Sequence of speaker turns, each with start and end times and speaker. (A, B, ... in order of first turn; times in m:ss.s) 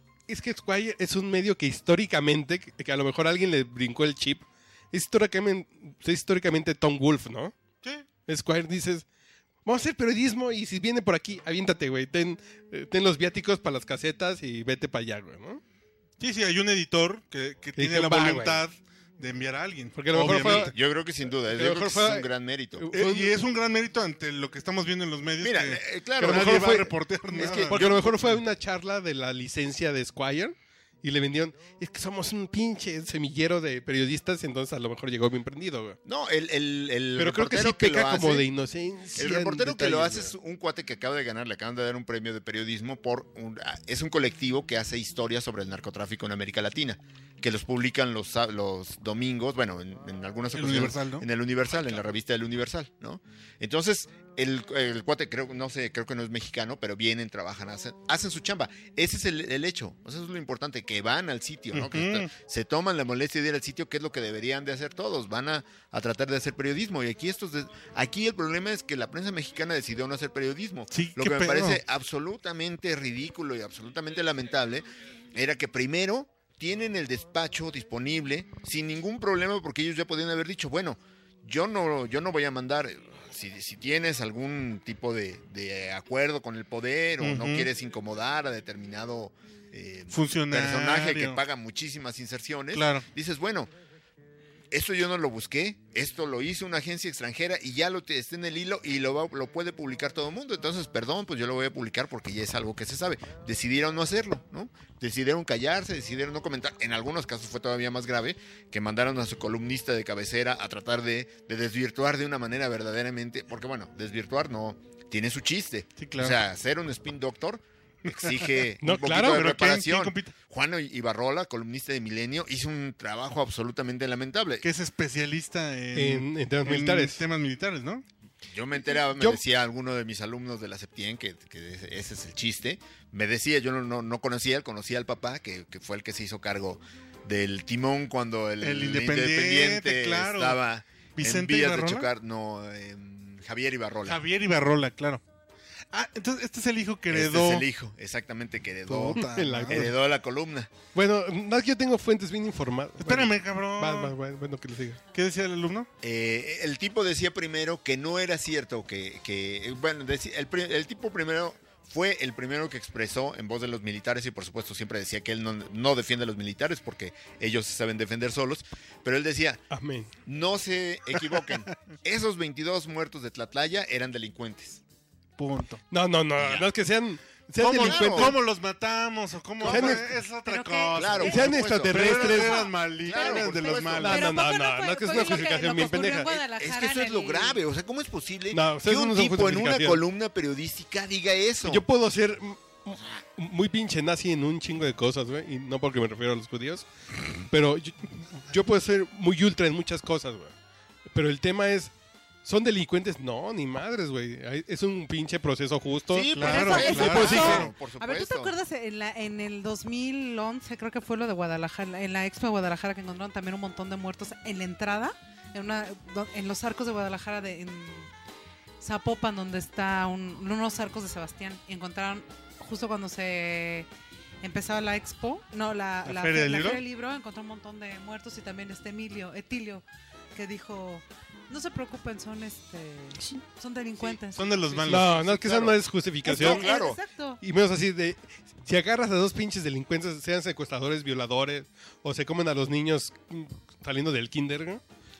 0:00.3-0:07.5 A
0:08.3-0:09.0 A
0:09.6-0:15.6 A
0:16.2-0:20.7 B
0:17.8-0:18.6 A
0:19.9-0:20.8 A
0:20.2-0:22.9 C
0:21.4-0:23.4 A
0:22.9-0:28.2 B
0:25.4-0:28.4 C
0:26.2-0:36.0 A
0:36.0-0:38.5 C
0:37.2-0:40.3 A
0:39.1-1:33.7 C
0:50.5-0:51.3 B
1:01.7-1:02.3 B
1:10.9-1:11.8 B
1:27.2-1:27.7 B
1:30.1-1:31.4 B
1:32.7-1:33.0 B
1:34.7-2:04.6 C
1:56.0-1:56.4 B
1:58.2-2:00.3 B
1:58.8-1:59.5 A
2:04.6-2:08.0 B
2:05.9-2:07.2 A
2:08.4-2:24.2 C
2:09.1-2:09.4 A
2:18.6-2:20.6 B
2:21.2-2:22.1 B
2:24.0-2:25.2 B
2:25.9-2:27.6 B
2:27.1-2:30.7 C
2:28.9-2:29.9 B
2:29.2-2:29.9 A
2:30.9-2:35.0 A
2:33.0-2:34.1 B
2:35.1-2:35.9 B
2:36.0-2:49.6 C
2:49.7-2:50.1 A
2:50.2-2:54.8 C
2:55.4-2:55.8 B
2:55.9-2:58.4 A
2:56.4-2:56.7 C
2:57.6-3:04.3 B
2:57.7-2:58.4 C
2:59.6-3:00.1 C
2:59.6-3:00.1 A
3:00.4-3:01.4 D
3:00.9-3:04.3 C
3:01.2-3:02.7 A
3:02.2-3:07.6 D
3:04.0-3:06.3 A
3:05.2-3:05.9 B
3:06.2-3:11.8 C
3:08.5-3:10.0 A
3:11.6-3:16.9 A
3:17.4-3:20.5 A
3:21.1-3:21.9 A
3:22.4-3:27.6 A
3:26.1-3:28.5 C
3:26.3-3:27.7 B
3:26.4-3:38.1 D
3:38.8-3:43.9 D
3:44.4-3:49.8 D
3:46.0-3:46.8 B
3:50.3-3:55.1 D
3:54.2-3:55.8 B
3:54.8-3:56.7 A
3:56.2-3:57.0 C
3:56.2-3:57.4 D
3:57.4-4:04.8 A